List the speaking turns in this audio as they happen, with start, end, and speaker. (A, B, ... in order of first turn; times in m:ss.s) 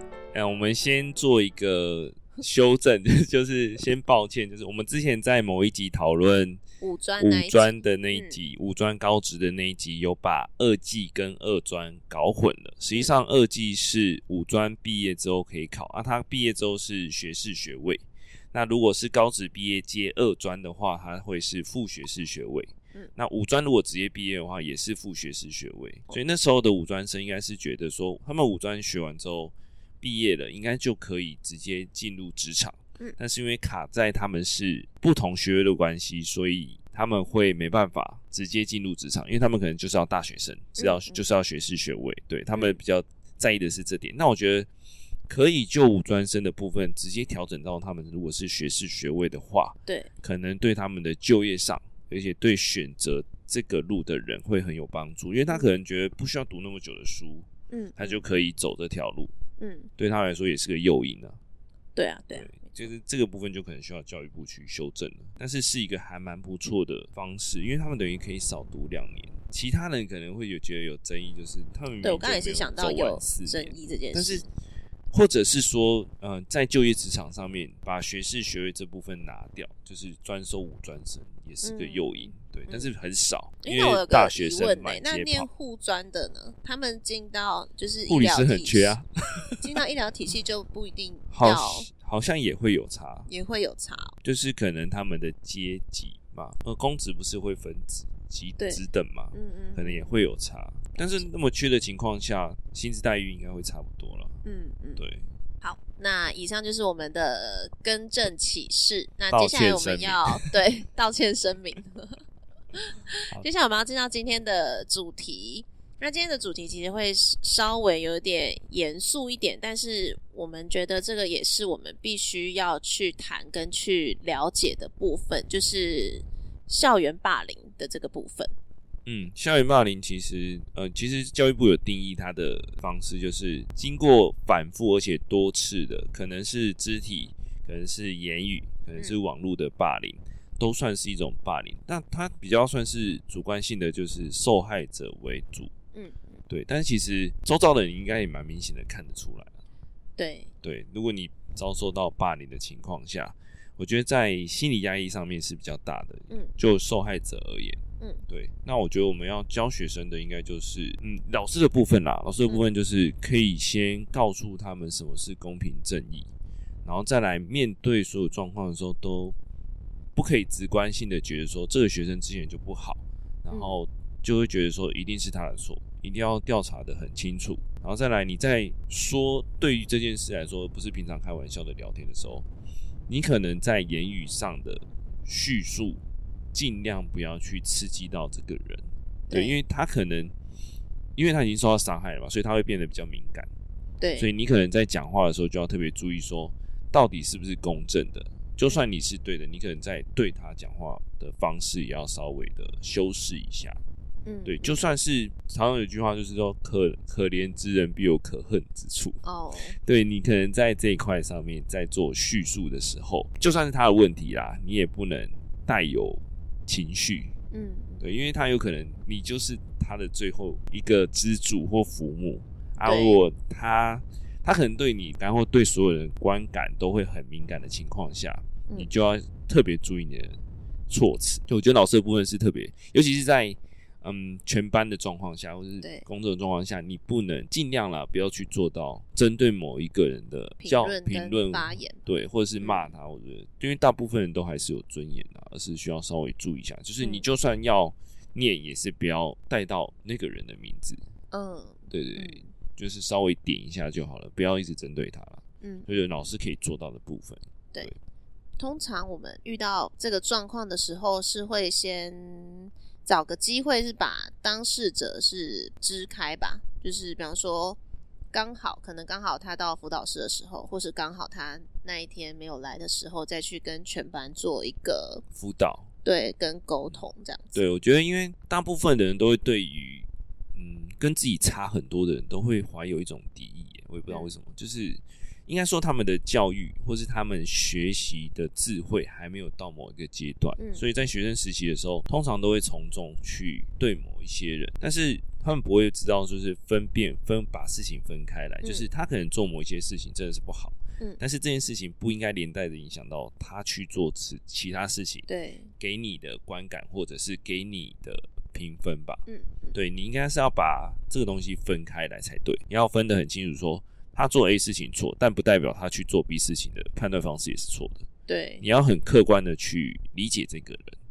0:00.3-0:06.6 A
0:06.8-0:08.4 B
0:07.2-0:44.7 A
0:40.8-0:41.2 B
0:45.3-0:59.3 A
0:57.7-0:58.2 B
0:59.6-0:59.9 B
1:00.0-1:01.4 A
1:02.0-1:02.8 B
1:02.3-1:14.5 A
1:12.0-1:14.5 B
1:15.1-1:25.5 A
1:21.6-1:22.9 B
1:23.6-1:29.0 B
1:28.1-1:29.7 A
1:29.6-1:31.9 B
1:31.3-1:33.3 A
1:33.3-1:34.2 B
1:34.2-1:44.4 A
1:38.6-1:40.1 B
1:41.0-1:41.2 B
1:44.4-1:45.0 B
1:45.0-1:45.2 A
1:45.6-1:52.2 B
1:49.3-1:50.4 A
1:52.8-2:08.5 B
2:09.1-2:25.7 A
2:26.0-2:26.4 B
2:26.5-2:29.5 A
2:30.2-2:30.5 B
2:30.6-2:46.3 A
2:46.8-2:49.4 A
2:50.2-3:02.5 A
2:53.5-2:53.8 B
3:03.1-3:06.0 A
3:06.5-3:10.3 A
3:09.3-3:09.6 B
3:11.2-3:13.5 A
3:14.0-3:14.3 B
3:14.2-3:23.8 A
3:24.3-3:24.9 B
3:24.5-3:29.2 A
3:29.2-3:29.8 B
3:29.8-3:37.3 A
3:37.5-3:38.1 B
3:38.0-3:50.4 A
3:42.8-3:43.2 B
3:50.9-4:11.0 A
4:00.6-4:02.0 B
4:11.3-4:12.5 B
4:11.9-4:18.0 A
4:15.6-4:15.9 B
4:18.6-4:27.8 B
4:28.3-4:35.2 B
4:35.4-4:35.9 A
4:36.0-4:37.6 B
4:37.6-5:05.3 A
4:44.1-4:44.4 B
4:50.6-4:50.8 B
5:05.3-5:05.7 B
5:05.8-5:09.2 A
5:09.3-5:09.8 B
5:09.7-5:18.1 A
5:18.3-5:18.6 B
5:18.6-5:21.0 A